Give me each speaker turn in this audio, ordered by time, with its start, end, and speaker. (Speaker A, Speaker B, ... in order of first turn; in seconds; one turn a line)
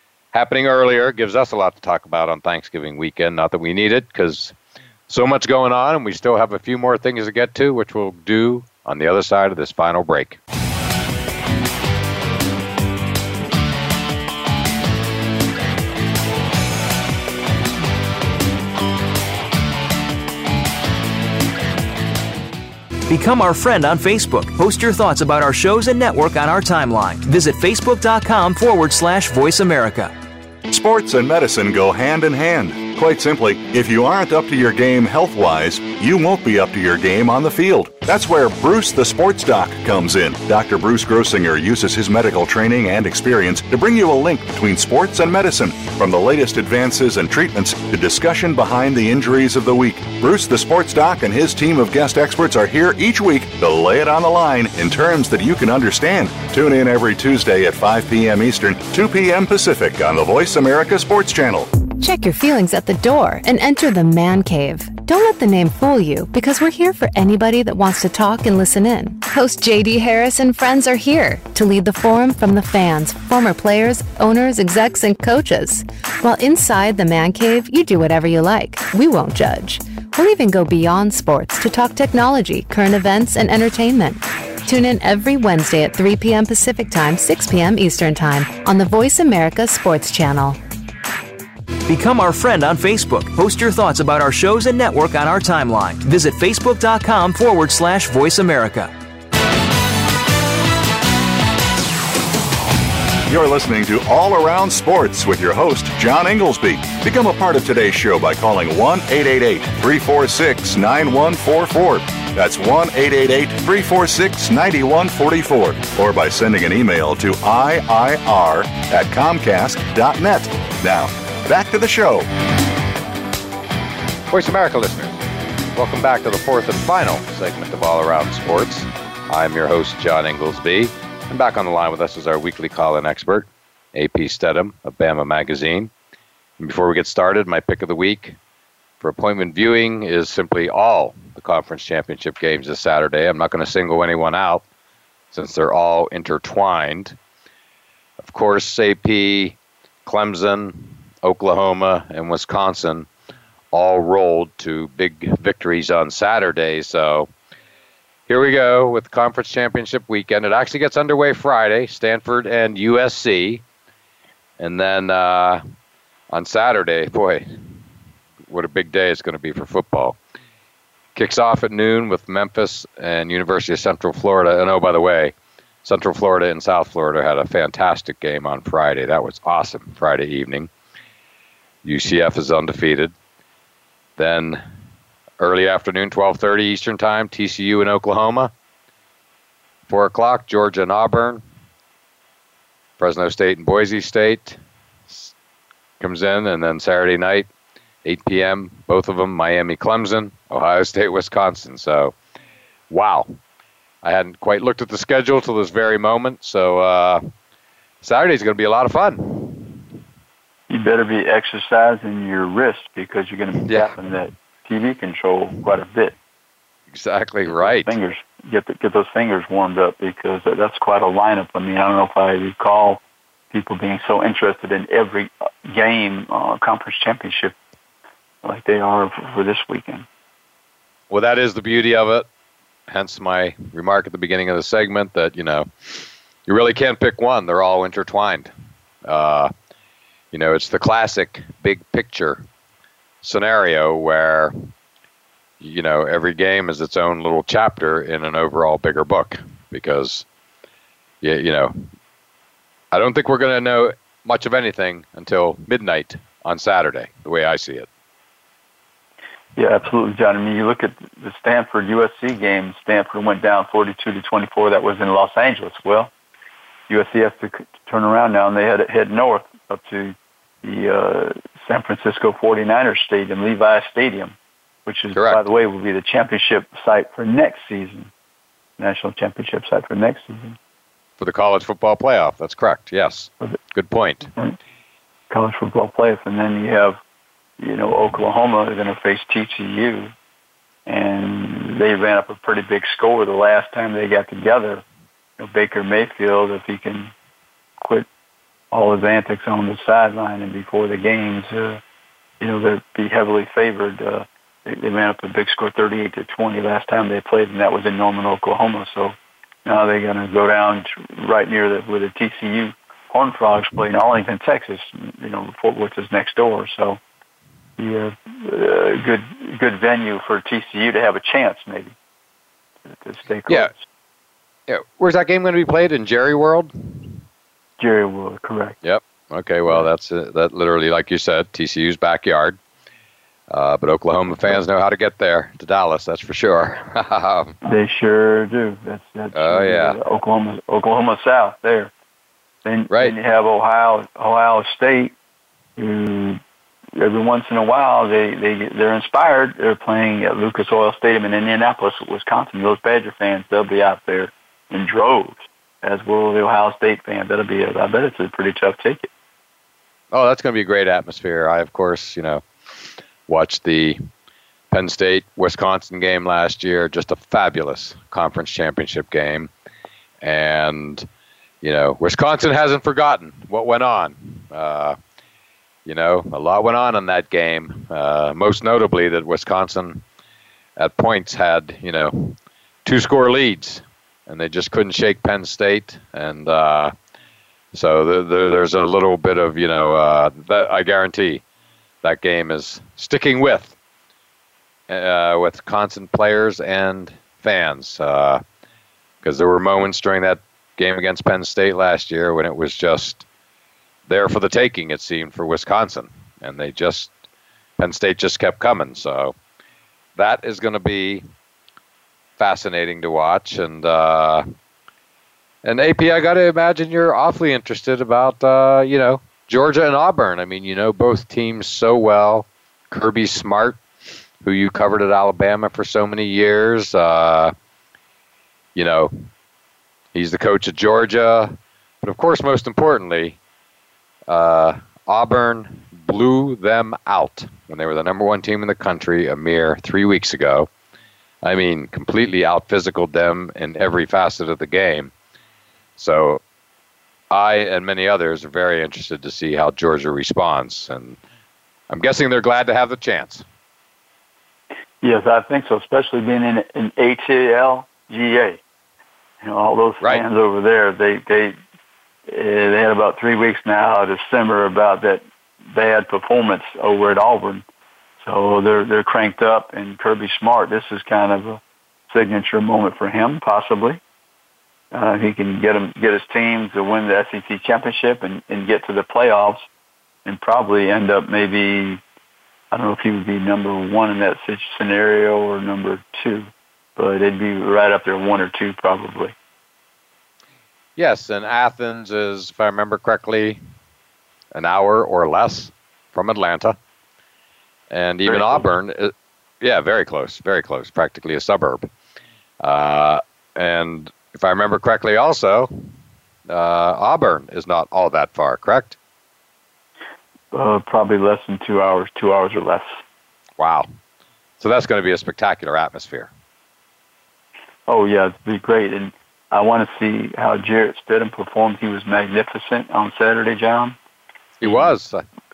Speaker A: 0.3-4.5
Speaker A: 5.1-10.4
Speaker B: 23.1-30.1
Speaker C: 30.7-61.7
Speaker D: 62.0-90.6
Speaker B: 91.9-98.9
Speaker C: 103.3-122.3
Speaker A: 124.3-125.2
Speaker A: 125.7-135.9
Speaker A: 136.6-138.4
Speaker A: 139.0-144.6
Speaker A: 145.3-147.2
Speaker A: 148.2-153.1
Speaker A: 153.7-157.3
Speaker A: 158.3-163.6
Speaker A: 164.6-165.6
Speaker A: 166.3-167.5
Speaker A: 168.5-170.2
Speaker A: 171.1-180.7
Speaker A: 181.8-183.1
Speaker A: 184.2-184.6
Speaker A: 185.4-188.5
Speaker A: 189.9-191.4
Speaker A: 193.0-195.3
Speaker A: 196.0-197.5
Speaker A: 198.0-202.1
Speaker A: 202.9-203.4
Speaker A: 204.0-207.2
Speaker A: 208.0-209.8
Speaker E: 210.7-216.1
Speaker A: 213.6-213.9
Speaker A: 216.9-218.0
Speaker E: 217.5-223.0
Speaker E: 223.5-227.6
Speaker E: 228.4-230.1
Speaker A: 231.1-232.2
Speaker A: 232.9-238.5
Speaker A: 239.0-239.5
Speaker A: 240.3-242.4
Speaker A: 243.2-244.7
Speaker A: 245.6-250.2
Speaker A: 251.2-251.8
Speaker A: 252.9-257.9
Speaker E: 259.6-266.1
Speaker E: 266.9-278.1
Speaker A: 275.1-275.4
Speaker E: 278.8-280.6
Speaker A: 281.2-284.3
Speaker E: 285.3-287.0
Speaker E: 287.6-290.1
Speaker E: 290.9-294.8
Speaker E: 295.4-297.1
Speaker E: 297.8-298.1
Speaker E: 298.7-301.8
Speaker E: 302.4-317.0
Speaker E: 317.8-321.9
Speaker E: 322.9-323.8
Speaker A: 324.7-327.2
Speaker E: 327.8-328.8
Speaker A: 328.8-332.6
Speaker A: 333.5-337.6
Speaker E: 337.6-341.9
Speaker A: 339.3-340.0
Speaker E: 342.6-345.1
Speaker E: 345.8-346.4
Speaker E: 347.0-359.1
Speaker A: 360.1-362.4
Speaker A: 363.3-364.0
Speaker A: 364.7-369.5
Speaker A: 370.2-371.1
Speaker A: 371.6-374.9
Speaker A: 375.9-380.0
Speaker A: 380.8-386.9
Speaker A: 387.7-391.4
Speaker A: 392.0-393.8
Speaker A: 394.9-398.4
Speaker A: 399.2-403.2
Speaker A: 404.1-407.1
Speaker A: 407.8-409.3
Speaker A: 410.1-411.2
Speaker A: 412.4-414.4
Speaker A: 415.6-423.8
Speaker A: 424.4-427.5
Speaker A: 428.7-429.1
Speaker A: 430.1-433.4
Speaker A: 434.3-440.7
Speaker A: 441.4-445.1
Speaker A: 446.0-446.4
Speaker A: 447.3-451.2
Speaker A: 451.9-453.4
Speaker E: 455.0-458.6
Speaker E: 459.4-461.6
Speaker E: 462.3-467.6
Speaker E: 468.2-474.0
Speaker E: 474.9-479.7
Speaker E: 480.2-482.0
Speaker E: 482.7-489.3
Speaker A: 491.0-493.6
Speaker A: 494.5-496.8
Speaker A: 497.9-501.9
Speaker E: 498.2-498.6
Speaker A: 502.6-505.7
Speaker A: 506.5-509.0
Speaker E: 510.5-513.0
Speaker A: 513.6-513.9
Speaker A: 514.6-516.3
Speaker E: 517.9-524.0
Speaker A: 524.6-525.2
Speaker E: 524.6-524.9